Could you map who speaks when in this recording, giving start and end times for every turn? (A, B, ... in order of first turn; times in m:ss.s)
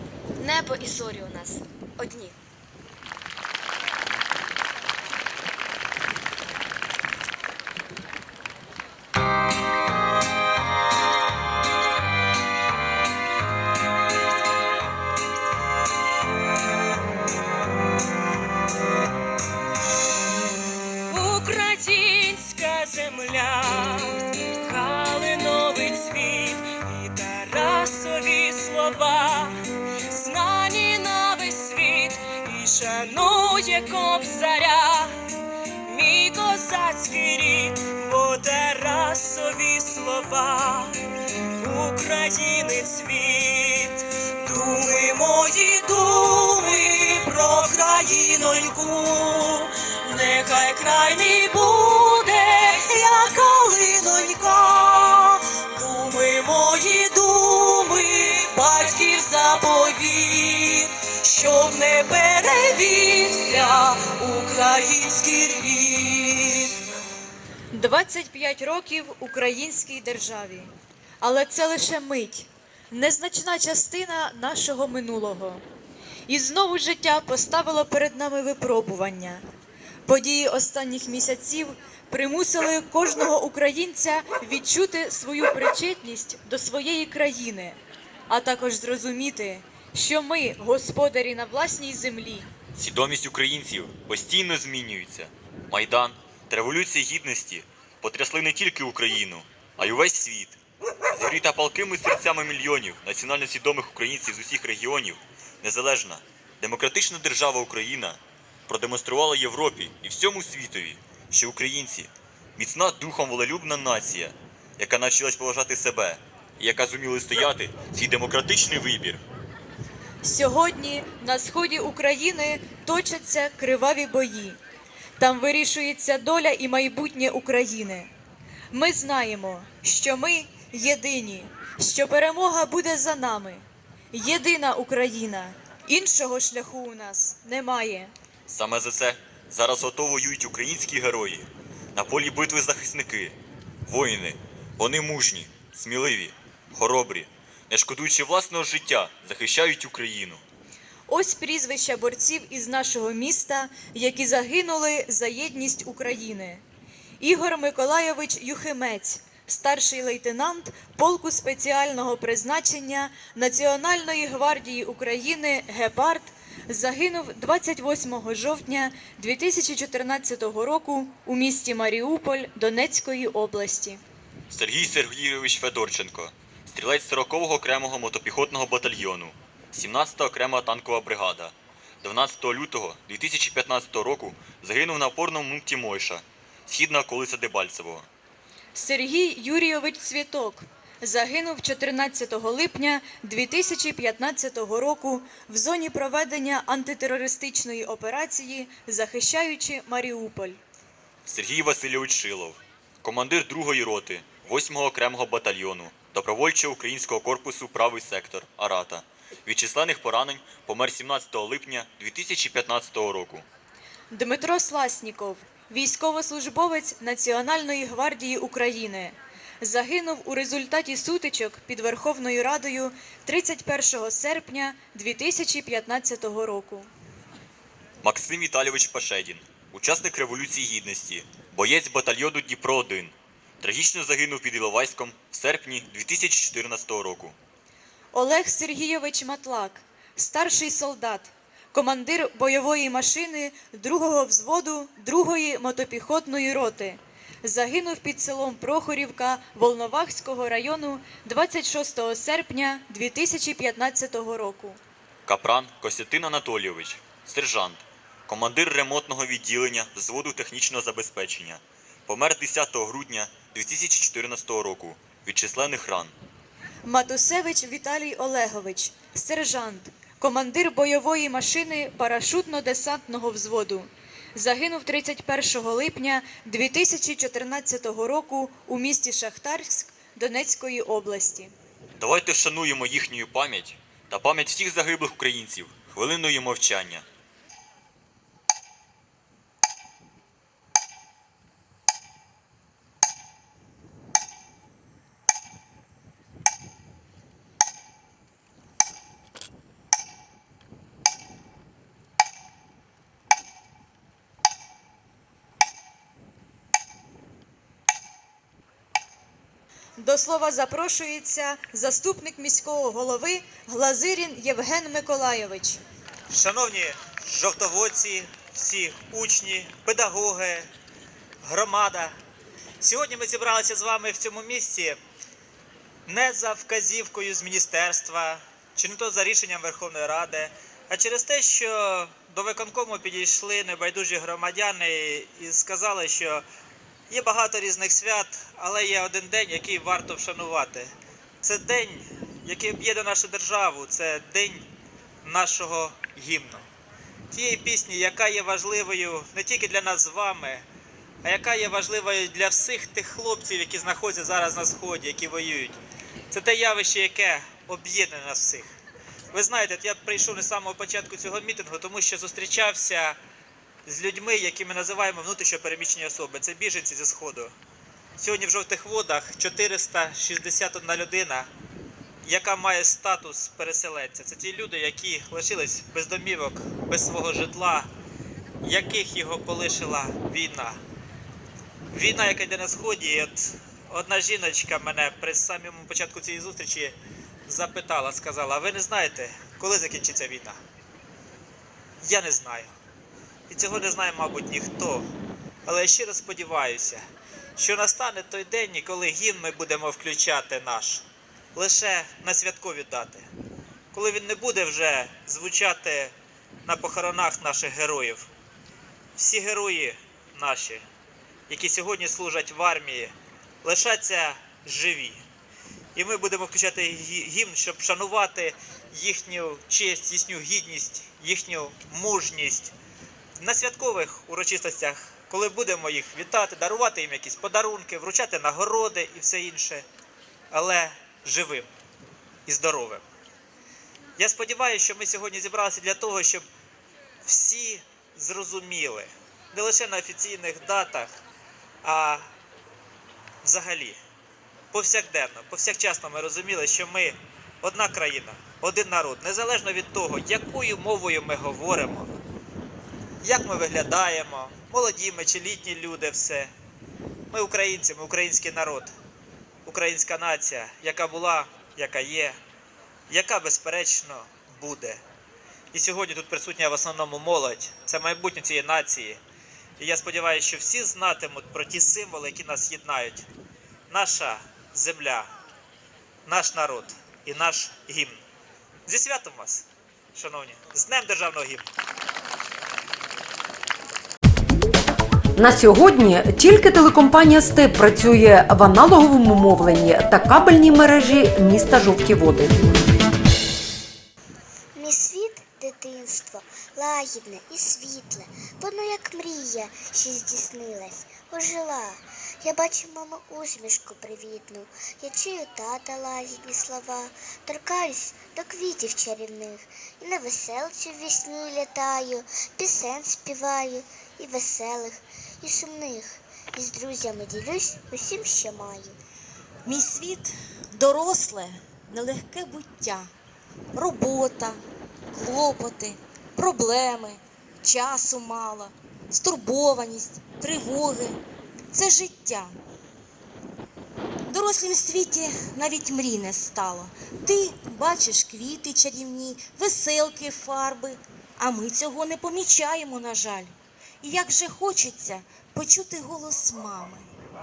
0:00.4-0:02.4 A
0:21.1-0:35.2 B
0:35.8-0:41.0 B
0:41.6-1:06.8 B
1:07.7-1:15.6 C
1:16.3-1:19.4 C
1:20.1-1:27.8 C
1:28.3-1:32.5 C
1:32.8-1:40.6 D
1:41.1-1:59.2 D
2:00.2-2:04.6 C
2:05.2-2:08.1 C
2:08.7-2:18.1 C
2:18.5-2:30.4 D
2:31.1-2:36.6 C
2:37.2-2:54.0 C
2:54.5-3:08.1 D
3:08.7-3:20.6 C
3:21.2-3:33.4 D
3:34.1-3:46.9 C
3:48.0-3:57.4 D
3:58.1-4:14.8 C
4:15.2-4:26.1 D
4:26.8-4:41.5 C
4:42.0-4:47.0 D
5:10.0-5:15.8 C
5:16.3-5:20.7 E
5:21.4-5:22.2 E
5:22.8-5:25.0 E
5:26.1-5:36.4 E
5:37.1-5:44.7 E
5:45.2-5:46.7 E
5:47.3-5:50.6 E
5:51.2-5:55.8 E
5:56.3-5:58.7 E
5:59.3-6:03.2 E
6:03.8-6:07.5 E
6:08.2-6:11.5 E
6:12.2-6:17.9 E
6:18.6-6:20.8 E
6:21.9-6:30.6 E
6:32.0-6:32.7 E
6:33.5-6:35.1 E
6:35.6-6:37.0 E
6:37.6-6:43.3 E
6:43.9-6:48.3 E
6:49.2-6:50.8 E
6:51.5-6:55.2 E
6:55.9-7:02.7 E
7:03.4-7:09.8 E
7:10.5-7:11.7 E
7:12.4-7:13.0 E
7:14.2-7:16.4 E
7:17.2-7:21.2 E
7:21.8-7:22.3 E
7:23.4-7:24.0 E
7:24.7-7:32.1 E
7:33.2-7:36.5 E
7:37.3-7:38.9 E
7:39.6-7:42.4 E
7:43.1-7:45.0 E
7:45.7-7:49.2 E
7:49.8-7:53.3 E
7:53.9-7:55.3 E
7:56.2-7:58.2 E
7:58.8-8:01.7 E
8:05.4-8:12.7 F
8:14.8-8:39.0 G
8:39.6-8:43.1 H
8:43.7-8:51.2 H
8:51.7-8:52.5 H
8:54.3-9:07.1 H